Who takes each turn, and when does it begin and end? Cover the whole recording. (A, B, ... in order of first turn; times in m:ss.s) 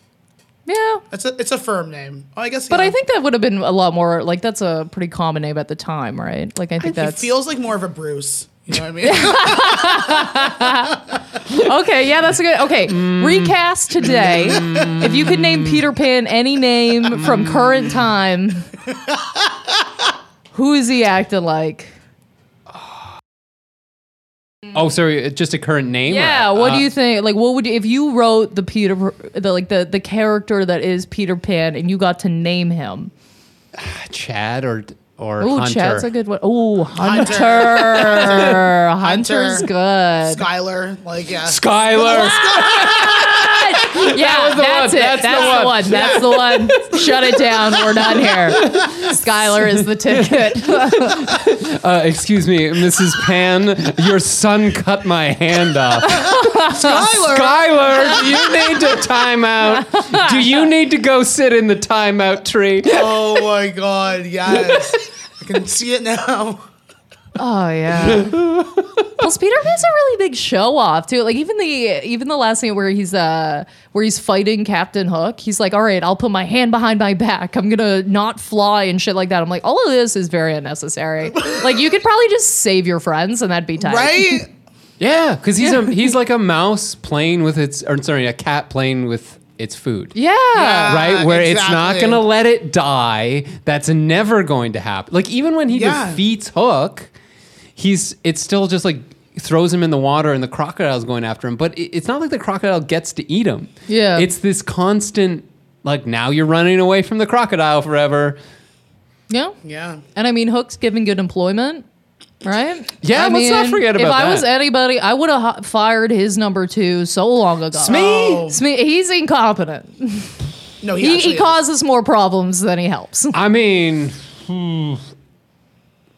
0:00.7-0:01.0 A
0:01.1-0:02.9 B
0:02.7-0:07.3 A
0:06.8-0:10.4 B
0:09.0-0:18.7 A
0:12.9-0:15.8 C
0:14.5-0:15.0 B
0:17.1-0:18.0 C
0:20.5-0:21.9 A
0:22.7-0:23.0 C
0:24.7-0:26.9 C
0:26.1-0:33.1 A
0:33.7-0:36.1 C
0:35.4-0:40.4 A
0:36.9-0:39.7 B
0:38.0-0:38.6 C
0:40.2-0:43.5 B
0:41.4-1:03.4 C
0:42.0-0:51.3 A
0:45.3-0:46.5 B
0:56.0-0:57.0 A
0:56.4-0:58.8 B
0:59.8-1:00.4 A
1:02.8-1:06.6 B
1:04.5-1:05.0 C
1:07.4-1:08.5 A
1:08.0-1:09.0 C
1:09.2-1:24.4 A
1:23.8-1:24.5 B
1:25.0-1:30.1 C
1:25.6-1:26.0 A
1:30.1-1:31.0 A
1:30.5-1:32.2 B
1:30.8-1:37.1 C
1:35.7-1:36.2 B
1:37.8-1:48.4 C
1:43.9-1:44.3 A
1:49.3-1:49.6 A
1:49.6-1:50.0 B
1:50.1-1:51.8 A
1:52.4-2:00.4 A
1:53.0-1:54.5 C
1:57.7-1:58.5 C
1:57.8-1:58.6 B
2:00.8-2:01.6 B
2:01.0-2:03.4 A
2:03.3-2:05.0 C